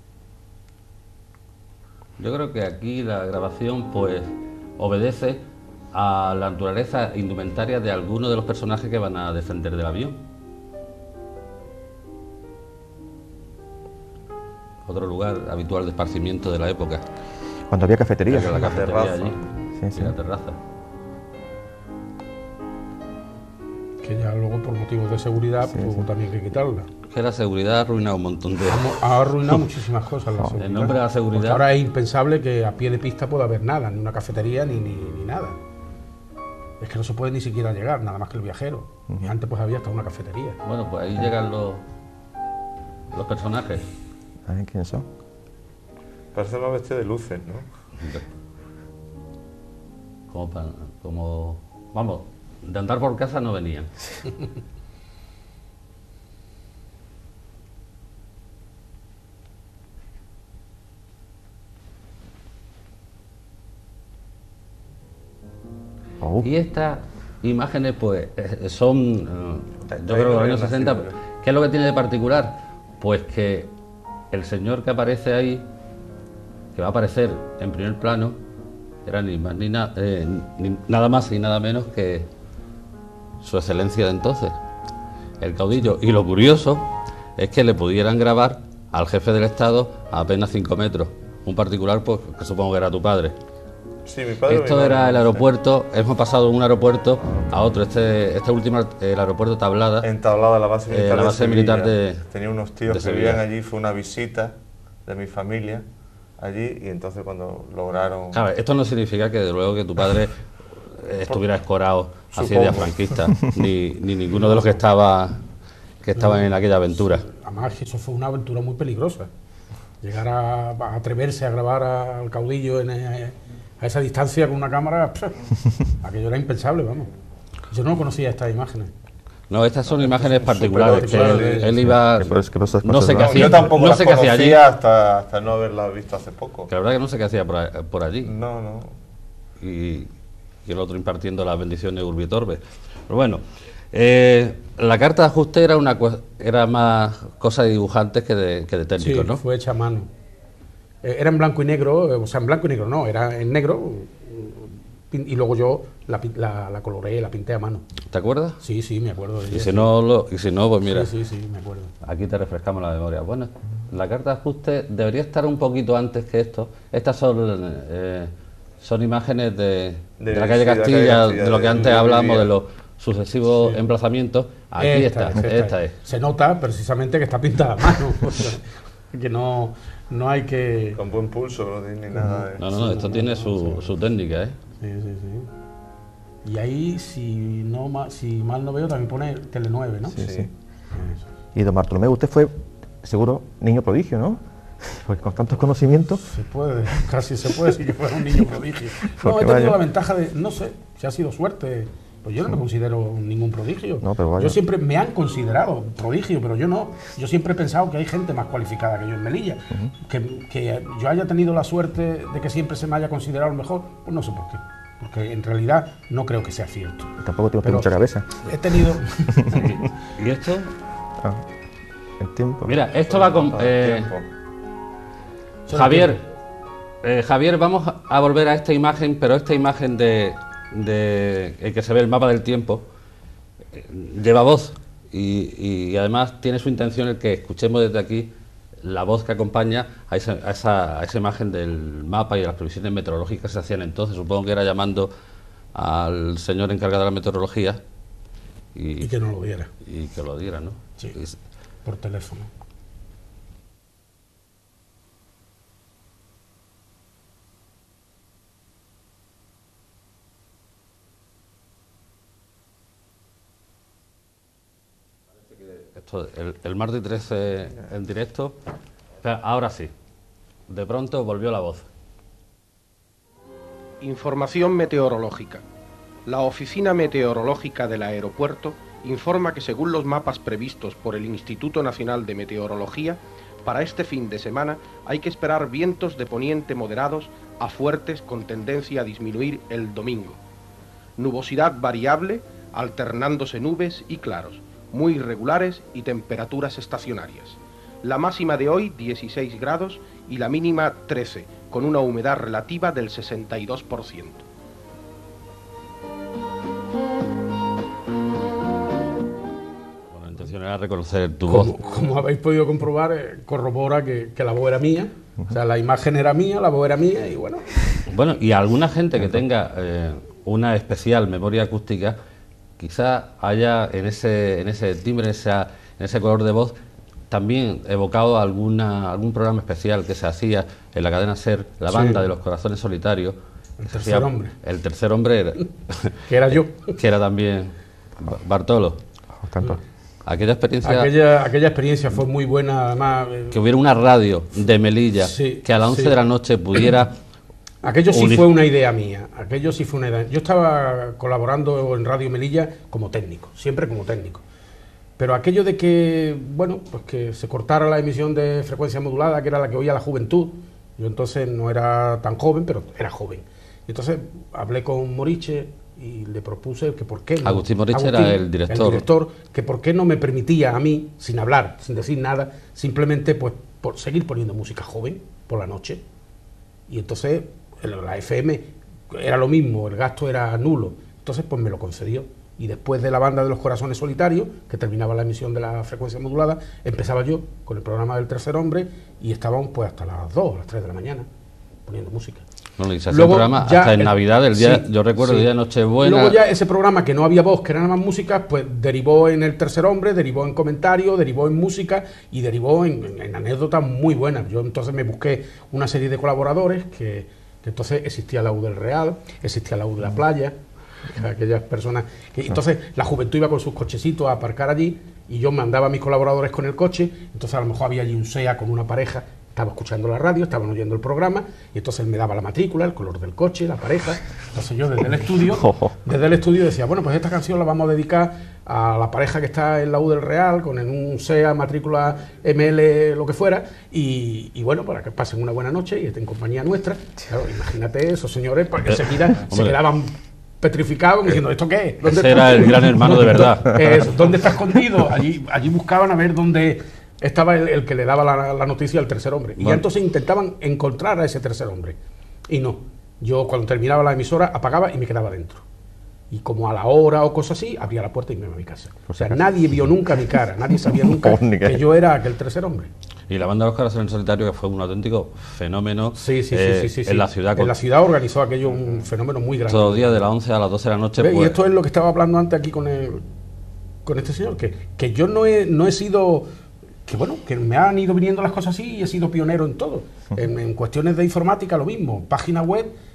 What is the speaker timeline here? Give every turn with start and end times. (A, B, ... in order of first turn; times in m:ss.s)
0:02.2-0:10.2 A
0:14.8-0:17.0 A
0:17.7-0:18.7 B
0:18.3-0:19.4 A
0:18.3-0:19.4 C
0:19.8-0:20.1 B
0:19.9-0:20.6 A
0:24.0-0:26.9 D
0:25.6-0:26.0 B
0:27.1-0:29.0 A
0:28.6-0:35.6 D
0:30.6-0:31.6 A
0:36.8-0:40.6 D
0:40.6-0:41.8 A
0:43.1-0:43.8 A
0:44.5-0:45.0 B
0:46.3-0:47.7 C
0:50.3-0:54.3 A
1:06.2-1:06.5 B
1:06.4-1:13.7 A
1:09.9-1:11.1 C
1:14.3-1:15.6 A
1:16.7-1:18.4 A
1:19.0-1:22.3 A
1:23.4-1:24.6 A
1:25.4-1:33.4 A
1:34.0-1:35.5 C
1:34.5-1:40.1 A
1:40.0-1:45.8 C
1:40.9-1:42.2 A
1:42.8-1:43.4 A
1:46.4-1:48.4 C
1:48.3-1:55.4 A
1:52.3-1:52.9 C
1:56.0-1:57.2 A
1:56.2-1:59.3 D
2:00.0-2:07.1 D
2:07.7-2:08.9 D
2:09.5-2:14.6 A
2:09.9-2:11.6 C
2:10.8-2:11.8 D
2:11.9-2:13.6 B
2:13.1-2:16.7 C
2:16.7-2:18.3 A
2:18.2-2:19.0 C
2:19.6-2:20.1 A
2:20.6-2:29.4 A
2:29.0-2:30.1 D
2:31.0-2:37.8 D
2:38.1-2:38.6 A
2:38.6-2:39.9 D
2:39.5-2:41.1 A
2:40.8-2:41.9 D
2:42.0-2:55.9 A
2:50.2-2:52.5 C
2:54.8-3:01.0 D
3:01.0-3:02.6 C
3:02.6-3:04.6 A
3:02.7-3:03.9 D
3:04.8-3:05.5 D
3:06.4-3:10.2 D
3:10.1-3:10.5 B
3:10.2-3:10.5 C
3:10.9-3:11.2 D
3:11.5-3:16.2 B
3:16.3-3:37.9 D
3:19.1-3:19.8 B
3:24.0-3:24.6 B
3:37.2-3:38.3 B
3:38.4-3:39.8 D
3:39.4-3:39.6 B
3:40.2-3:40.7 A
3:41.2-3:41.4 B
3:42.2-3:42.8 B
3:42.6-3:44.1 A
3:43.0-3:44.2 C
3:45.7-3:46.2 D
3:45.7-3:46.2 A
3:47.0-3:52.8 A
3:53.7-4:05.1 A
4:05.7-4:07.8 A
4:08.7-4:09.1 A
4:09.0-4:09.7 D
4:09.8-4:11.4 A
4:11.8-4:12.5 D
4:25.9-4:28.6 A
4:29.2-4:29.9 A
4:30.7-4:31.9 A
4:34.0-4:35.6 E
4:36.2-4:50.4 E
4:51.2-5:04.4 E
5:10.1-5:11.8 A
5:11.5-5:17.8 D
5:18.1-5:22.2 A
5:22.8-5:26.8 A
5:27.3-5:33.4 A
5:31.9-5:32.2 D
5:33.8-5:34.5 D
5:33.9-5:39.0 A
5:36.3-5:36.9 D
5:39.3-5:39.8 B
5:40.2-5:41.1 A
5:40.8-5:43.6 D
5:43.5-5:47.1 A
5:45.2-5:46.2 D
5:47.8-5:54.4 D
5:48.1-5:48.5 A
5:55.2-6:16.0 D
6:07.4-6:09.0 A
6:16.9-6:31.3 D
6:31.9-6:32.4 D
6:32.8-6:36.4 A
6:33.1-6:35.5 D
6:36.0-7:32.0 D
7:05.5-7:05.9 B
7:18.9-7:19.8 A
7:22.0-7:24.1 A
7:32.5-7:35.6 D
7:36.3-7:42.9 D
7:39.1-7:39.6 B
7:40.7-7:41.8 B
7:43.3-7:47.8 A
7:46.1-7:50.3 D
7:49.7-7:51.6 A
7:51.2-7:53.2 D
7:54.0-7:56.5 D
7:57.0-8:02.9 D